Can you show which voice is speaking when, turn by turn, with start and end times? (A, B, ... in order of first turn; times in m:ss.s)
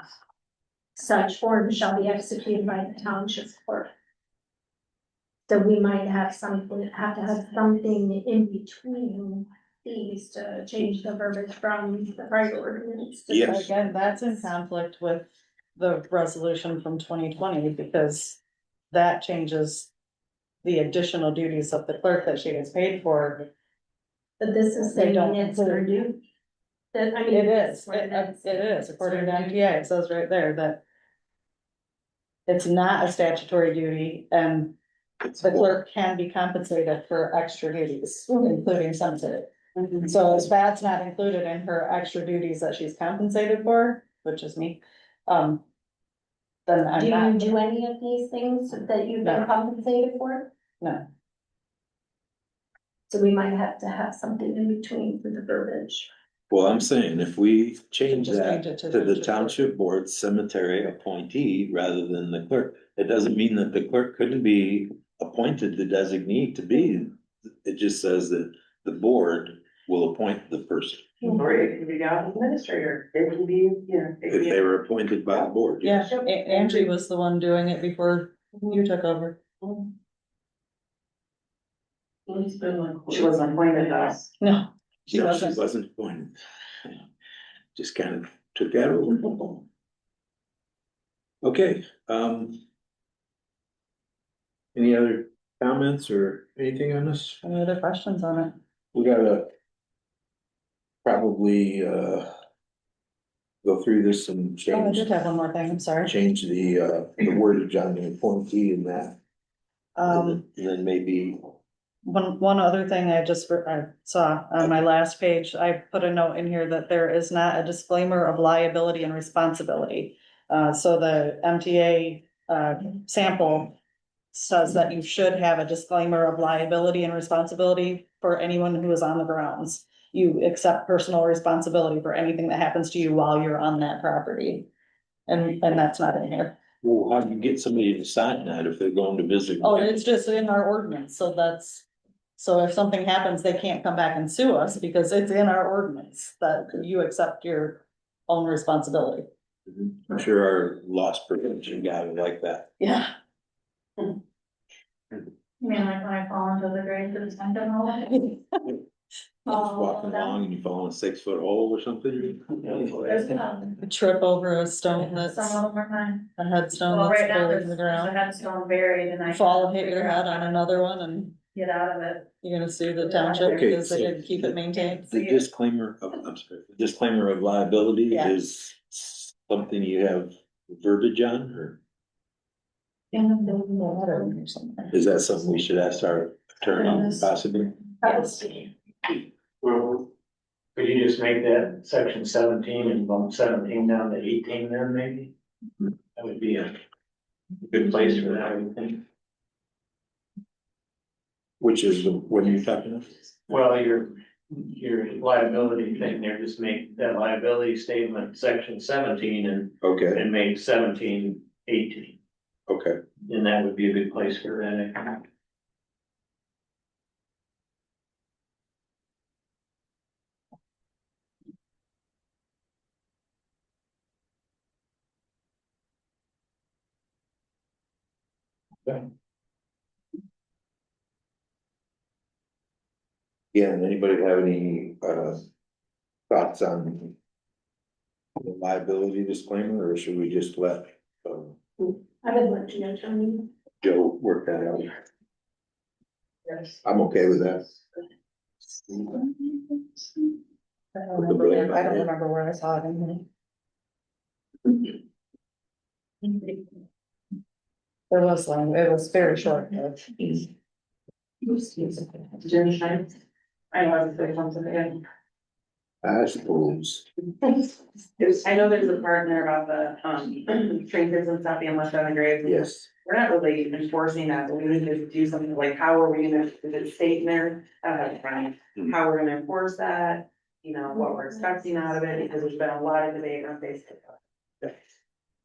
0:01.0-0:03.9 A
0:05.5-0:13.7 A
0:13.3-0:13.7 B
0:13.4-0:18.4 C
0:18.9-0:19.9 C
0:20.6-0:23.5 C
0:24.4-0:26.2 A
0:24.8-0:25.9 C
0:26.9-0:29.6 A
0:27.3-0:30.8 C
0:32.5-0:34.8 C
0:35.2-0:35.7 B
0:35.4-0:39.5 C
0:40.0-0:45.6 C
0:46.6-0:47.6 C
0:47.0-0:50.5 A
0:49.2-0:49.5 C
0:53.1-0:56.1 A
0:56.5-1:11.1 B
0:58.1-0:59.6 C
1:11.2-1:14.6 D
1:14.3-1:16.1 B
1:15.8-1:19.4 C
1:16.1-1:16.4 D
1:22.3-1:24.3 D
1:24.4-1:25.6 C
1:25.1-1:27.0 B
1:27.7-1:29.6 B
1:31.4-1:32.6 B
1:34.7-1:37.4 B
1:37.4-1:38.5 C
1:38.9-1:39.5 B
1:41.0-1:42.3 B
1:43.6-1:45.1 B
1:44.7-1:46.1 C
1:46.0-1:49.2 B
1:50.0-1:50.4 C
1:50.0-1:51.5 B
1:52.0-2:03.8 C
2:04.3-2:14.7 C
2:15.3-2:16.6 C
2:16.8-2:20.0 B
2:19.6-2:21.8 C
2:22.4-2:29.2 C
2:29.8-2:32.7 B
2:32.8-2:33.1 C
2:35.6-2:38.3 E
2:38.1-2:38.4 C
2:39.4-2:42.8 B
2:39.5-2:40.4 E
2:42.6-2:43.1 F
2:43.0-2:43.8 E
2:43.8-2:45.6 C
2:45.2-2:46.2 E
2:46.4-2:48.1 C
2:46.9-2:50.3 E
2:49.3-2:51.4 C
2:51.5-2:52.3 E
2:52.4-2:55.1 C
2:53.0-2:53.7 E
2:53.4-3:01.8 B
3:03.1-3:04.9 C
3:04.9-3:07.8 B
3:06.8-3:07.2 C
3:08.0-3:08.6 C
3:09.6-3:10.1 F
3:10.7-3:15.3 F
3:16.2-3:16.8 F
3:17.7-3:19.0 F
3:21.6-3:23.3 B
3:23.5-3:32.2 F
3:29.8-3:30.2 B
3:32.7-3:33.0 B
3:33.2-3:35.2 F
3:53.5-3:55.4 B
3:56.3-3:57.2 B
3:58.4-4:01.6 B
4:02.2-4:03.5 A
4:03.8-4:04.9 B
4:06.8-4:07.7 B
4:09.0-4:09.6 C
4:10.9-4:13.2 C
4:11.2-4:12.1 B
4:18.1-4:20.4 C
4:21.4-4:23.1 D
4:23.7-4:25.0 D
4:26.0-4:27.0 B
4:28.2-4:44.2 D
4:32.4-4:32.9 B